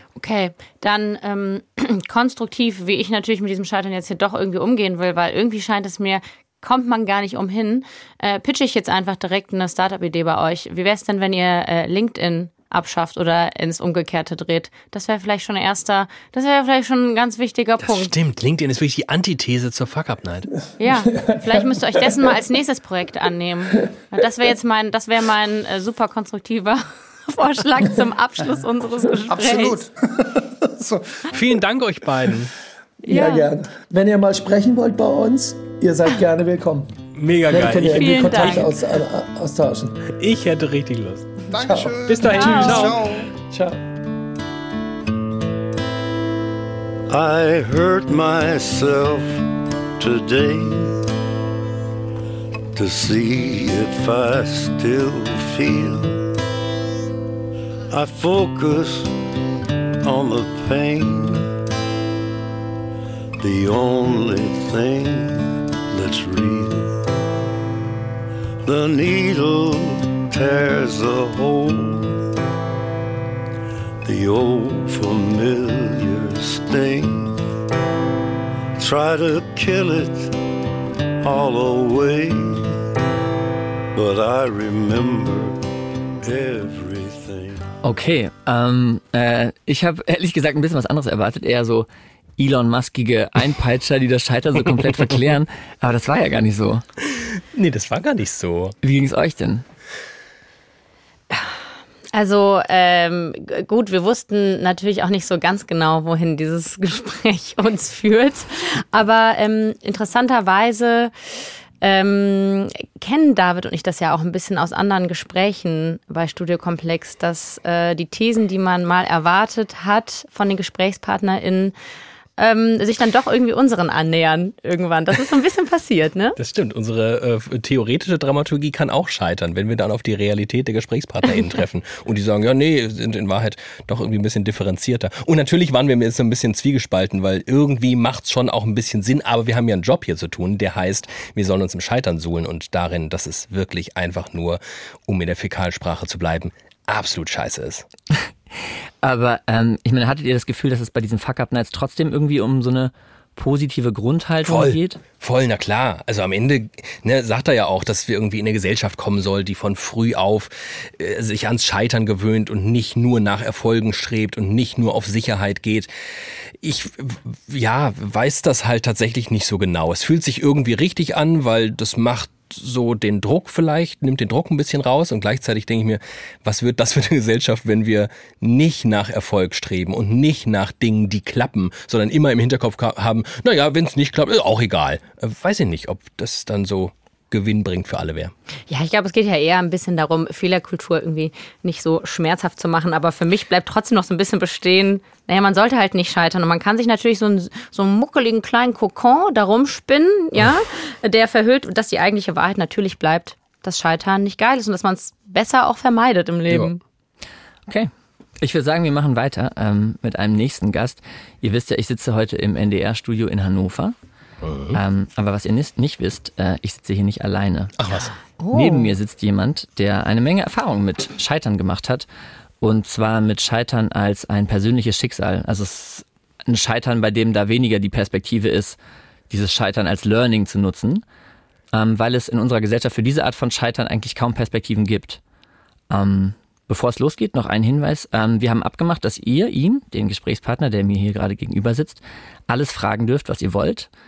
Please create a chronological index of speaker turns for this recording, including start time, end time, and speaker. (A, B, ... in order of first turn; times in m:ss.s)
0:00.2-0:18.1 A
0:17.8-0:20.5 B
0:20.8-0:29.8 A
0:21.2-0:22.2 C
0:29.3-0:31.3 D
0:31.3-0:32.5 B
0:33.0-0:36.9 C
0:33.1-0:33.5 A
0:37.2-0:38.7 B
0:37.5-0:40.0 C
0:37.8-0:38.8 A
0:40.2-0:41.3 B
0:41.5-0:43.3 D
0:41.6-0:43.8 C
0:42.1-0:43.0 B
0:42.3-0:42.8 A
0:47.1-0:49.4 E
0:50.0-0:51.0 E
0:52.7-0:56.3 E
0:57.9-0:59.2 E
1:00.0-1:01.5 E
1:03.4-1:07.0 E
1:08.6-1:12.2 E
1:14.0-1:17.4 E
1:18.8-1:20.4 E
1:21.2-1:22.8 E
1:23.9-1:25.6 E
1:26.2-1:27.7 E
1:27.8-1:36.8 F
1:37.0-1:38.8 B
1:38.8-1:39.6 F
1:42.1-1:51.1 A
1:51.8-2:01.7 A
2:02.4-2:06.4 A
2:06.4-2:27.9 B
2:28.6-2:35.0 F
2:34.4-2:45.9 B
2:46.6-3:08.3 B
3:08.7-3:26.8 A
3:28.4-3:33.9 F
3:34.4-3:34.8 B
3:34.7-3:37.7 F
3:37.8-3:38.1 B
3:38.4-3:38.9 A
3:38.5-3:42.1 F
3:42.6-3:48.8 F
3:49.3-3:51.0 F
3:51.7-3:55.2 F
3:55.9-4:03.9 F